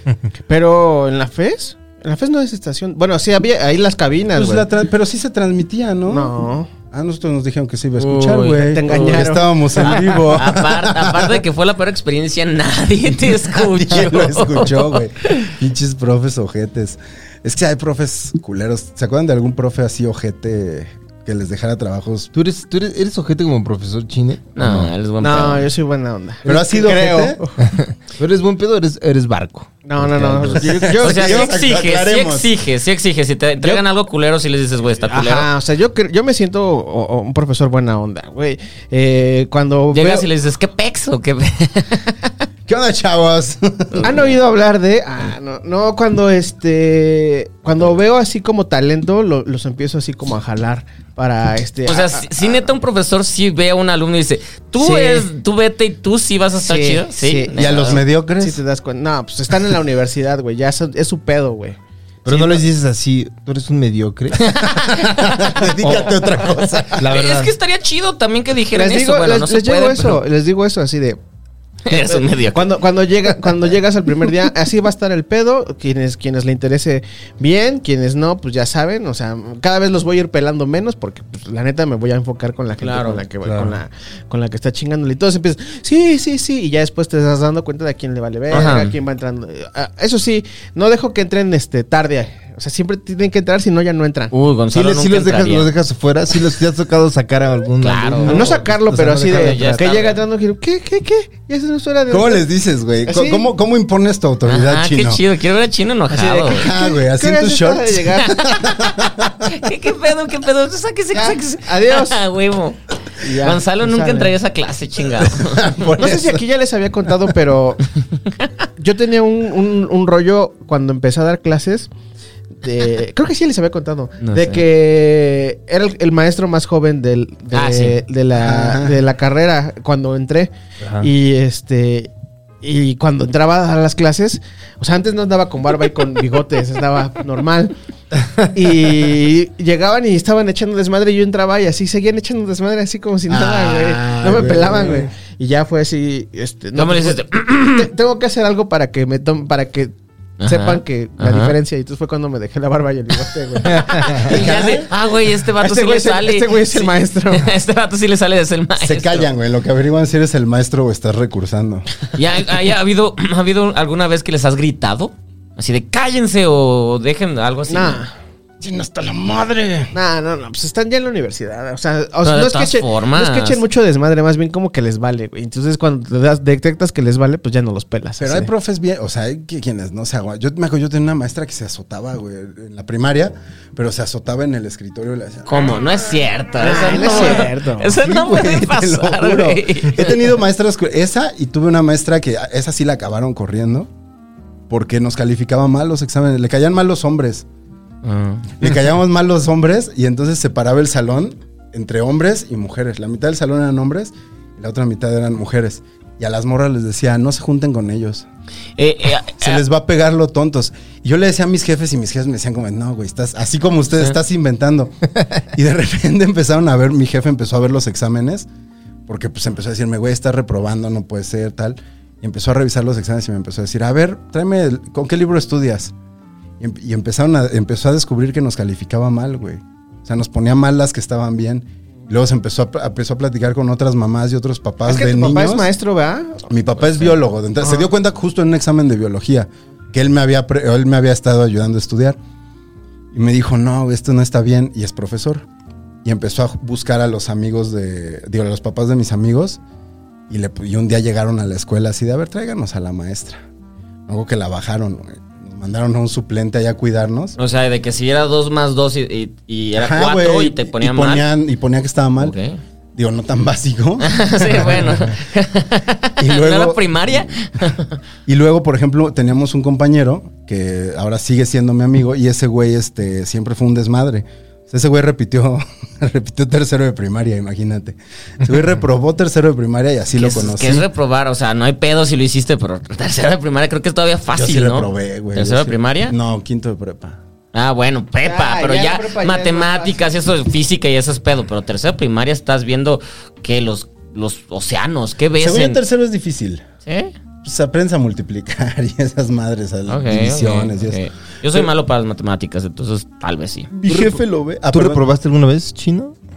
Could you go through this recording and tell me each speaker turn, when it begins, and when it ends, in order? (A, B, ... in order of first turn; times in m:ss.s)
0:00.4-0:04.7 A
0:04.3-0:06.3 B
0:06.1-0:06.7 A
0:06.9-0:11.4 B
0:08.0-0:15.5 C
0:08.6-0:10.3 A
0:13.5-0:22.3 B
0:22.3-0:24.9 D
0:24.6-0:25.7 C
0:25.2-0:27.6 A
0:26.4-0:27.4 B
0:27.6-0:30.7 D
0:29.8-0:31.5 A
0:30.5-0:32.5 B
0:31.0-0:35.5 C
0:35.0-0:40.3 A
0:39.9-0:42.3 C
0:42.7-0:44.2 B
0:43.9-0:44.3 C
0:44.0-0:52.6 A
0:51.8-0:58.0 C
0:54.8-0:55.3 A
0:56.6-1:01.8 A
0:57.5-0:58.6 B
1:02.2-1:04.6 D
1:02.3-1:02.6 A
1:04.4-1:10.2 C
1:04.7-1:07.2 B
1:06.9-1:07.6 D
1:08.7-1:11.2 A
1:11.8-1:12.7 C
1:11.9-1:34.3 A
1:22.8-1:23.2 C
1:23.4-1:23.7 D
1:28.5-1:28.9 C
1:34.3-1:35.7 C
1:34.7-1:39.5 D
1:37.8-1:38.5 C
1:38.2-1:42.4 A
1:38.9-1:39.4 B
1:39.2-1:40.2 C
1:42.1-1:45.2 B
1:43.0-1:43.5 A
1:44.5-1:46.7 C
1:46.1-1:48.4 A
1:46.5-1:49.7 B
1:48.3-1:55.8 C
1:51.1-1:52.2 A
1:53.2-1:54.3 A
1:55.2-1:56.4 B
1:56.0-1:57.8 A
1:58.8-2:01.9 A
2:02.6-2:12.1 A
2:04.2-2:04.6 C
2:07.5-2:08.0 C
2:08.3-2:09.0 B
2:10.8-2:11.1 D
2:12.6-2:17.7 A
2:18.4-2:29.9 A
2:23.3-2:25.1 B
2:26.8-2:27.9 C
2:30.4-2:31.5 C
2:30.4-2:34.4 A
2:34.0-2:39.3 C
2:34.1-2:34.9 B
2:35.6-2:37.5 A
2:38.8-2:41.9 B
2:42.1-2:48.0 C
2:47.7-2:48.1 A
2:48.6-2:49.9 B
2:49.9-2:58.5 A
2:52.2-2:53.6 C
2:58.2-3:05.9 B
3:05.5-3:10.2 C
3:06.6-3:07.9 A
3:08.0-3:13.9 B
3:14.7-3:17.4 B
3:18.0-3:18.5 C
3:18.6-3:28.3 B
3:28.8-3:29.6 C
3:29.3-3:38.5 B
3:39.1-3:45.9 B
3:46.6-3:55.7 B
3:54.8-3:57.1 A
3:56.5-4:02.2 B
4:03.1-4:05.4 B
4:06.0-4:09.6 B
4:10.3-4:13.4 B
4:14.1-4:17.4 B
4:17.4-4:21.2 C
4:19.8-4:22.3 B
4:22.2-4:22.6 C
4:22.9-4:25.1 B
4:24.0-4:28.0 C
4:26.2-4:27.3 B
4:28.3-4:40.9 B
4:40.1-4:46.1 C
4:44.3-4:47.2 B
4:47.5-4:55.8 C
4:48.2-4:50.0 A
4:55.4-4:56.6 B
4:56.8-4:57.1 C
4:57.4-5:01.0 B
4:59.9-5:03.7 C
5:03.7-5:05.0 B
5:03.9-5:06.1 D